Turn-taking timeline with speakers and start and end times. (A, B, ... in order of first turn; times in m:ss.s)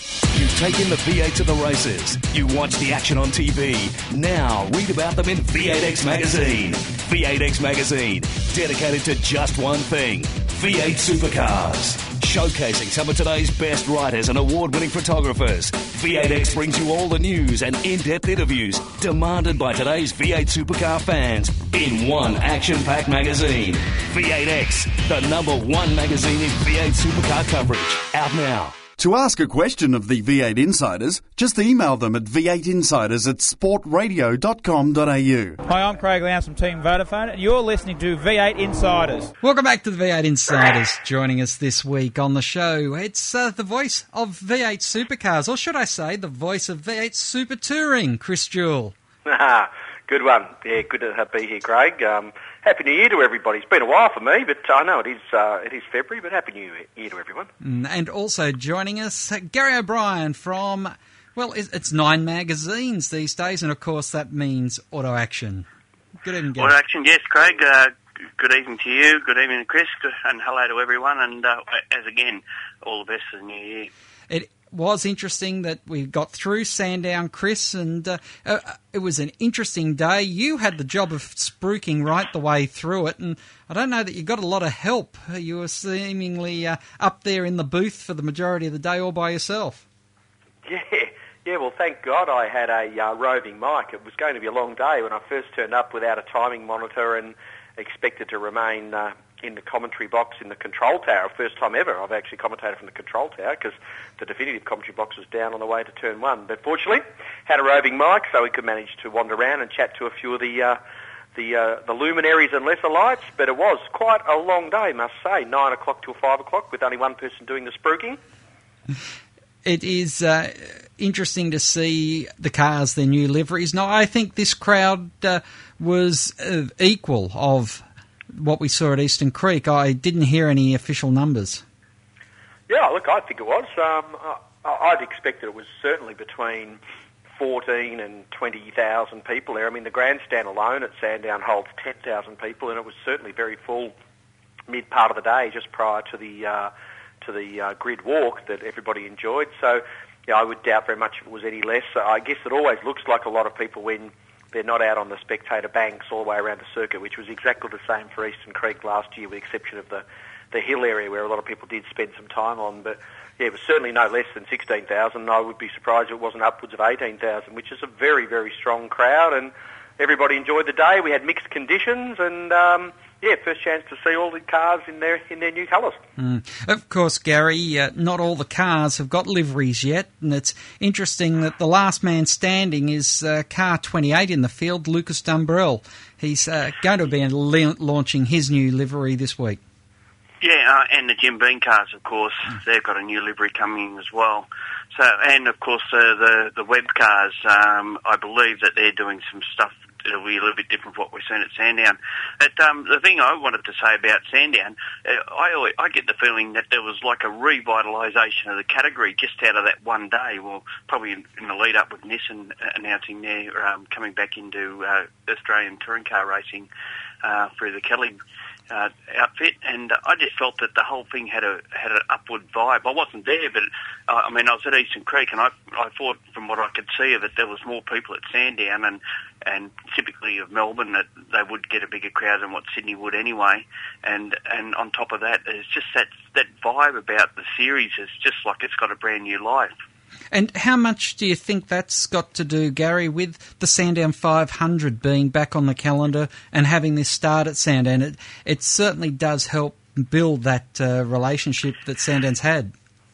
0:00.3-0:28.8 A
0:29.0-0:35.6 B
0:35.6-0:39.3 C
0:39.4-0:48.9 D
0:49.2-0:57.5 E
0:57.6-1:05.6 D
1:06.2-1:06.7 D
1:06.6-1:13.9 F
1:14.3-1:29.8 D
1:30.6-1:50.8 E
1:51.3-1:58.2 E
1:59.6-2:11.6 D
2:12.7-2:16.8 E
2:17.4-2:23.9 E
2:24.7-2:26.7 E
2:27.2-2:56.0 E
2:56.2-3:09.6 D
3:10.4-3:36.7 F
3:37.2-3:38.2 F
3:38.7-3:59.7 F
4:00.3-4:12.7 D